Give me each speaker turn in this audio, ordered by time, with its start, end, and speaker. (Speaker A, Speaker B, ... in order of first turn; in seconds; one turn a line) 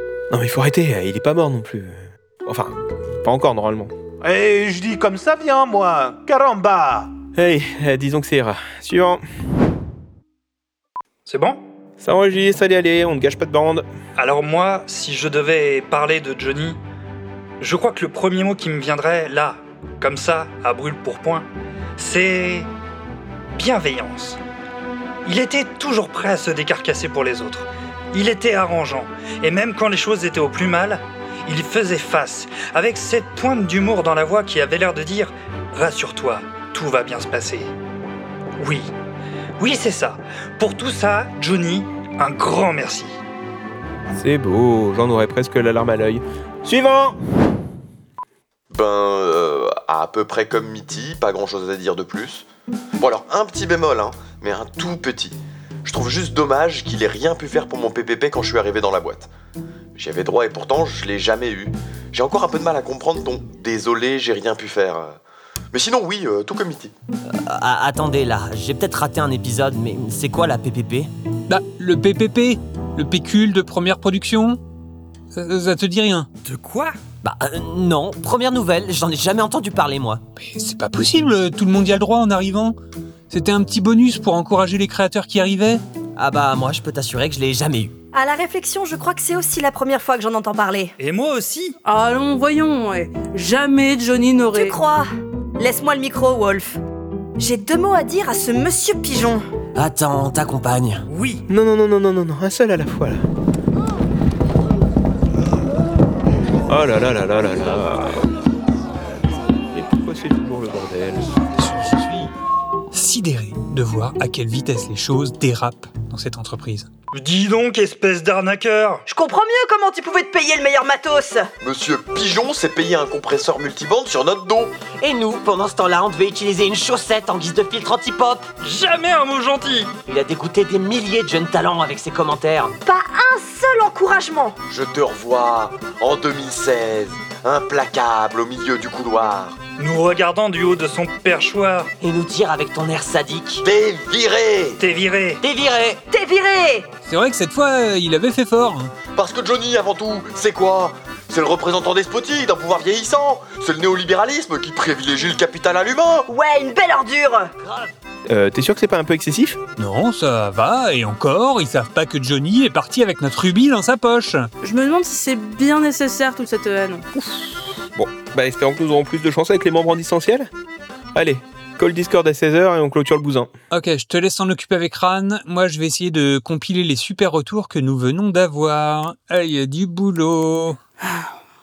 Speaker A: 0.3-3.9
Speaker B: 4.2-7.1
Speaker A: 7.4-9.2
Speaker C: 11.3-11.6
Speaker A: 12.0-13.8
Speaker C: 14.2-16.8
Speaker C: 17.6-22.7
Speaker C: 23.6-24.4
Speaker C: 25.2-37.7
Speaker C: 38.6-38.9
Speaker C: 39.6-43.2
Speaker A: 44.1-47.2
Speaker D: 48.7-52.5
Speaker D: 53.0-59.3
Speaker D: 60.0-65.2
Speaker D: 65.7-66.9
Speaker E: 67.3-71.1
Speaker F: 71.5-74.6
Speaker F: 75.3-76.3
Speaker C: 76.5-77.0
Speaker E: 77.2-80.2
Speaker F: 80.4-82.8
Speaker F: 83.3-85.8
Speaker E: 86.2-88.0
Speaker G: 88.1-90.9
Speaker C: 91.0-91.8
Speaker H: 91.8-94.8
Speaker G: 94.5-96.8
Speaker G: 97.4-99.4
Speaker E: 99.8-101.0
Speaker C: 101.1-101.4
Speaker A: 101.5-103.2
Speaker A: 106.7-108.3
Speaker A: 109.7-111.4
Speaker F: 111.6-112.3
Speaker F: 112.9-116.9
Speaker C: 117.1-119.0
Speaker G: 119.1-121.5
Speaker D: 121.6-124.8
Speaker E: 125.0-128.4
Speaker C: 128.6-129.9
Speaker E: 130.1-132.7
Speaker G: 132.9-134.6
Speaker D: 134.7-139.6
Speaker C: 139.8-141.9
Speaker E: 142.0-143.6
Speaker D: 143.6-144.8
Speaker C: 144.8-145.4
Speaker E: 145.4-146.0
Speaker G: 146.1-146.9
Speaker F: 147.1-148.9
Speaker D: 149.1-156.3
Speaker G: 156.3-157.5
Speaker A: 158.3-159.6
Speaker F: 159.8-164.5
Speaker H: 164.6-167.1
Speaker A: 167.9-170.5
Speaker A: 171.1-173.5
Speaker F: 173.7-180.8
Speaker H: 181.0-181.3